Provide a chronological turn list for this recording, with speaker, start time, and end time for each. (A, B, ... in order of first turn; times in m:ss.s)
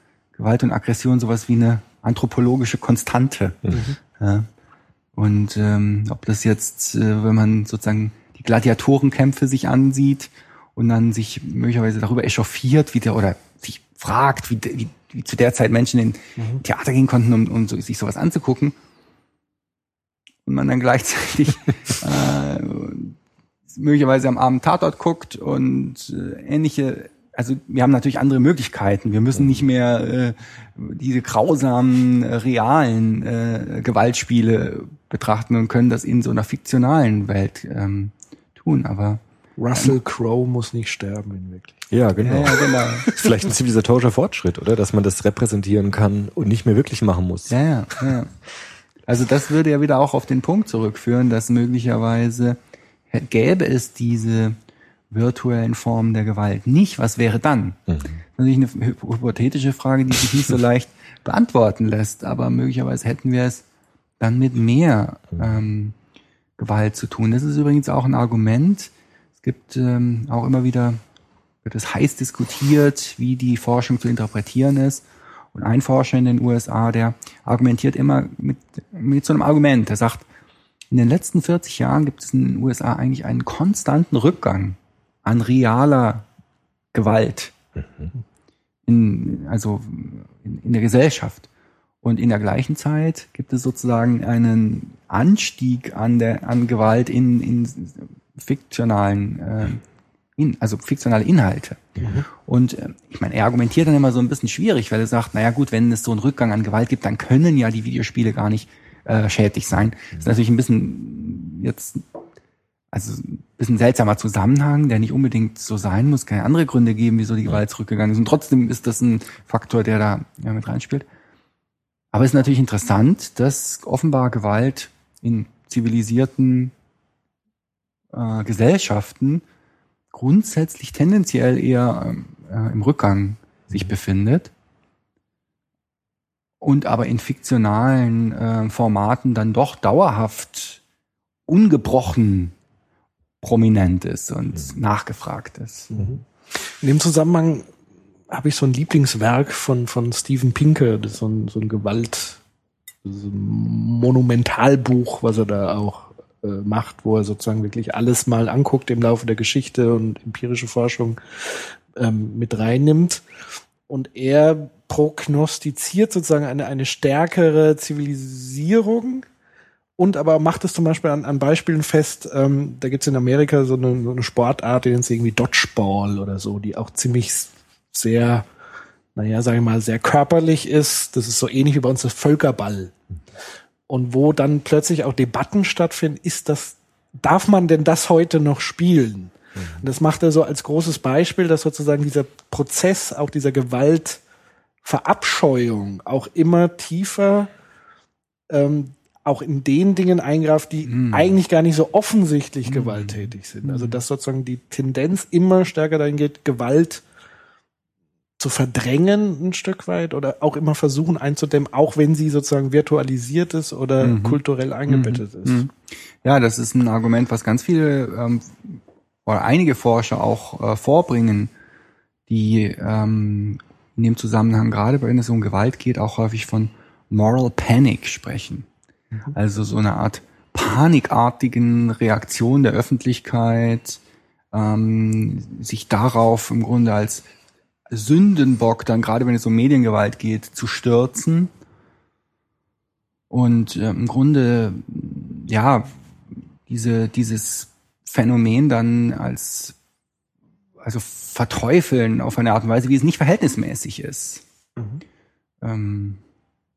0:00.4-0:03.6 A
0:03.7-0:04.0 B
0:04.1-0:04.5 A
0:05.2-0:18.7 A
0:16.4-0:16.6 B
0:20.4-0:23.1 A
0:23.7-0:39.2 A
0:39.6-0:41.9 B
0:41.9-0:48.1 C
0:42.2-0:43.1 A
0:43.0-0:43.3 B
0:47.5-0:48.3 A
0:49.1-0:52.6 A
0:53.1-0:54.6 A
0:55.1-0:57.8 A
0:57.9-0:58.2 C
0:58.4-1:03.6 A
1:04.2-1:05.9 A
1:06.6-1:11.0 A
1:11.6-1:20.2 A
1:20.9-1:26.2 A
1:26.9-1:27.5 A
1:27.8-1:28.1 C
1:28.9-1:31.5 A
1:32.0-1:39.8 A
1:40.4-1:52.0 A
1:52.9-2:01.0 A
2:02.1-2:06.7 A
2:08.1-2:09.4 A
2:10.1-2:14.5 A
2:16.6-2:20.8 A
2:21.5-2:22.5 A
2:23.4-2:25.9 A
2:25.9-2:27.7 B
2:28.3-2:32.4 B
2:33.0-2:43.2 B
2:43.9-2:49.2 B
2:50.0-2:58.5 B
2:59.2-3:02.9 B
3:03.9-3:14.2 B
3:09.6-3:09.8 C
3:14.8-3:17.5 B
3:18.5-3:27.0 B
3:20.9-3:21.4 A
3:22.7-3:24.0 A
3:28.4-3:35.7 B
3:34.0-3:41.5 A
3:42.3-3:48.7 A
3:49.3-3:54.0 A
3:54.5-3:57.3 A
3:57.9-4:01.5 A
4:03.3-4:06.0 A
4:06.7-4:09.8 A
4:10.8-4:14.4 A
4:14.8-4:15.0 B
4:15.6-4:16.2 A